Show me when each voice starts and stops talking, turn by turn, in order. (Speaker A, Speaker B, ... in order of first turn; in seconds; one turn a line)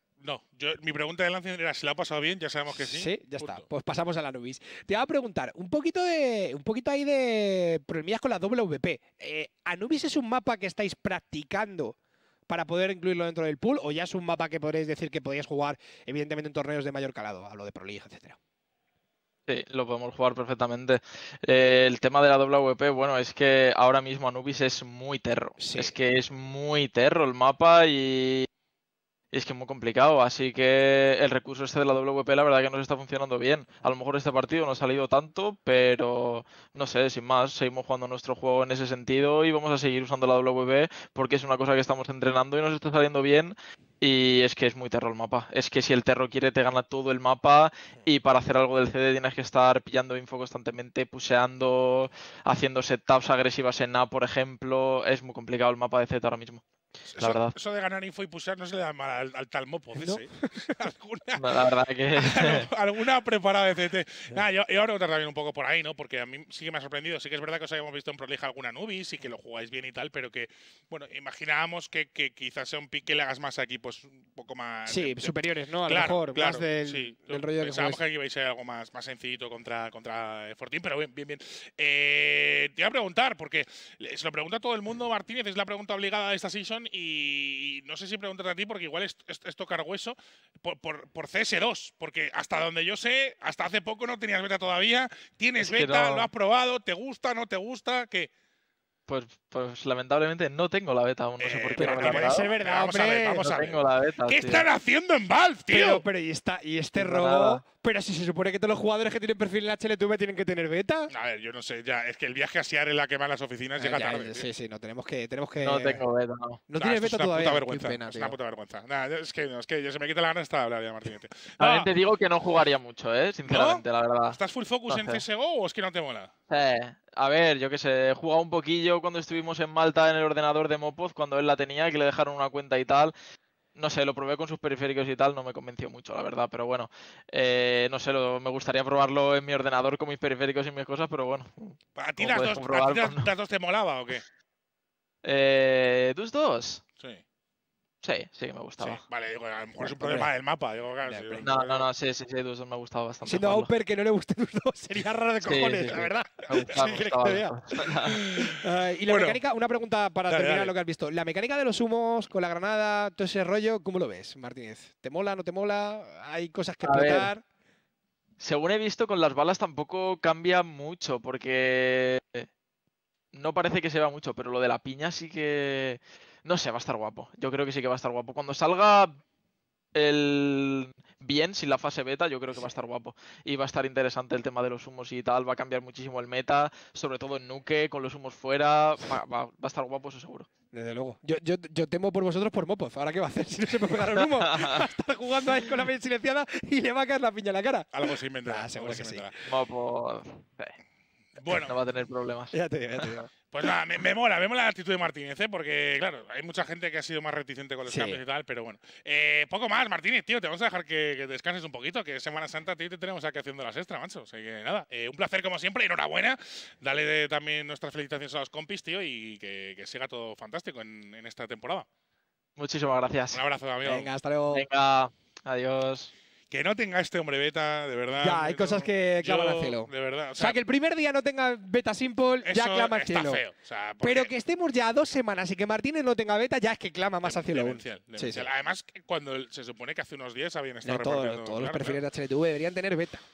Speaker A: 0.2-3.7
Speaker B: 2.7-12.0
Speaker B: 12.5-18.4
Speaker C: 19.5-28.5
Speaker B: 25.6-25.9
Speaker C: 29.3-56.6
Speaker A: 57.1-75.3
Speaker C: 57.2-57.5
Speaker B: 60.0-60.8
Speaker C: 61.4-62.7
Speaker B: 74.9-78.0
Speaker A: 75.9-98.3
Speaker C: 95.6-96.3
Speaker C: 99.1-102.5
Speaker A: 101.4-106.0
Speaker B: 101.8-103.5
Speaker C: 103.4-104.7
Speaker B: 105.7-111.1
Speaker C: 107.0-107.6
Speaker A: 111.1-114.4
Speaker B: 113.8-116.0
Speaker C: 115.6-116.6
Speaker B: 116.7-118.3
Speaker A: 116.8-121.9
Speaker C: 121.6-125.2
Speaker A: 123.5-126.3
Speaker C: 126.5-133.1
Speaker C: 133.8-143.3
Speaker A: 142.0-144.2
Speaker C: 145.2-146.8
Speaker C: 148.0-149.0
Speaker A: 148.8-151.9
Speaker B: 149.8-150.3
Speaker B: 151.1-151.5
Speaker C: 151.4-153.7
Speaker B: 153.2-167.4
Speaker C: 155.4-158.2
Speaker A: 156.7-157.1
Speaker A: 158.1-158.5
Speaker A: 159.1-159.4
Speaker A: 160.3-160.7
Speaker C: 166.8-167.3
Speaker C: 168.4-172.5
Speaker C: 173.3-179.2
Speaker C: 179.9-190.5
Speaker B: 190.7-199.3
Speaker C: 194.4-194.8
Speaker A: 197.9-199.3
Speaker C: 199.5-200.5
Speaker A: 201.4-201.8
Speaker C: 201.5-202.5
Speaker B: 202.5-203.3
Speaker A: 203.5-221.9
Speaker B: 207.9-208.2
Speaker C: 222.6-223.4
Speaker A: 223.3-224.1
Speaker B: 223.8-224.7
Speaker C: 224.5-226.1
Speaker A: 226.5-230.6
Speaker B: 228.2-233.4
Speaker A: 232.4-234.3
Speaker B: 234.0-238.5
Speaker A: 237.2-242.0
Speaker B: 240.8-243.2